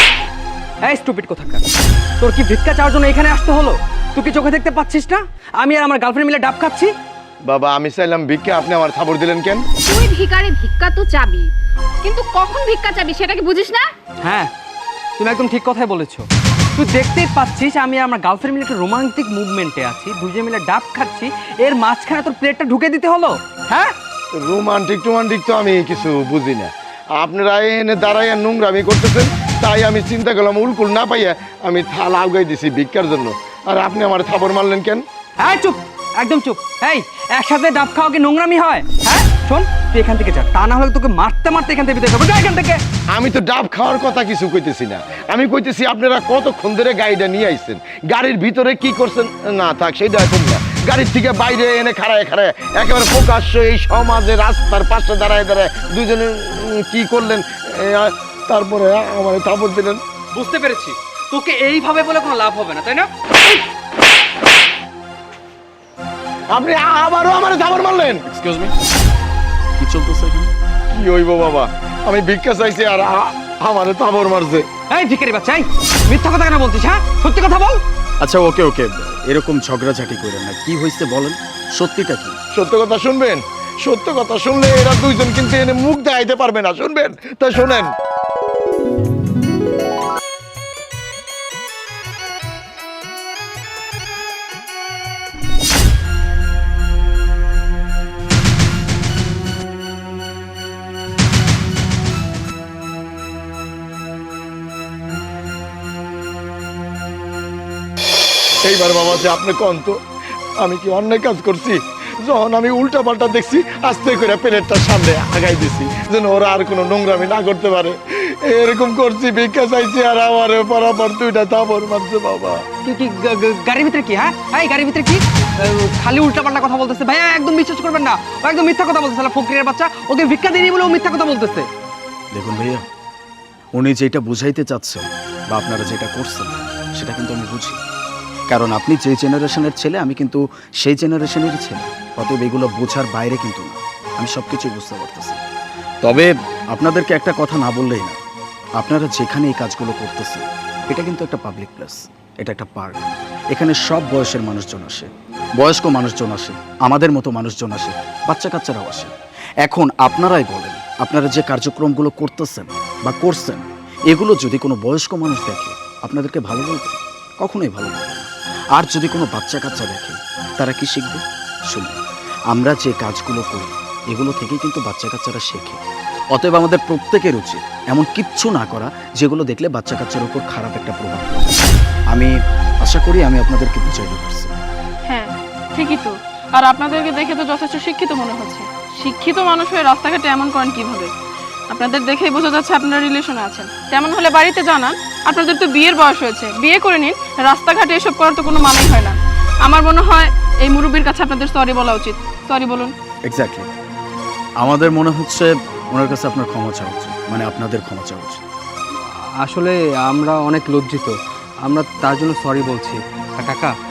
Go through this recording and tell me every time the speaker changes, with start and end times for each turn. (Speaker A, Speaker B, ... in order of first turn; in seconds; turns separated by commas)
Speaker A: 0.8-1.6, Speaker A: 2.2-6.9, Speaker B: 7.4-9.6, Speaker C: 9.8-11.5, Speaker C: 12.0-13.9, Speaker A: 14.2-14.5, Speaker A: 15.2-23.9, Speaker B: 24.3-35.0, Speaker A: 35.4-42.8, Speaker B: 43.1-60.0, Speaker A: 60.3-63.1, Speaker B: 66.5-68.2, Speaker D: 68.3-68.7, Speaker D: 69.8-70.5, Speaker B: 70.9-74.7, Speaker A: 74.9-77.8, Speaker D: 78.2-82.4, Speaker B: 82.5-87.9, Speaker B: 108.6-110.0, Speaker B: 110.6-122.6, Speaker A: 122.8-131.7, Speaker D: 132.3-132.8, Speaker D: 133.7-137.8, Speaker D: 138.5-145.4, Speaker D: 146.0-148.2, Speaker D: 148.8-159.1, Speaker D: 159.6-175.8, Speaker D: 176.3-184.5, Speaker E: 185.1-191.1, Speaker E: 191.7-199.1, Speaker E: 199.7-202.9, Speaker D: 203.3-203.7, Speaker D: 204.6-208.4, Speaker A: 209.4-211.1, Speaker A: 211.6-213.7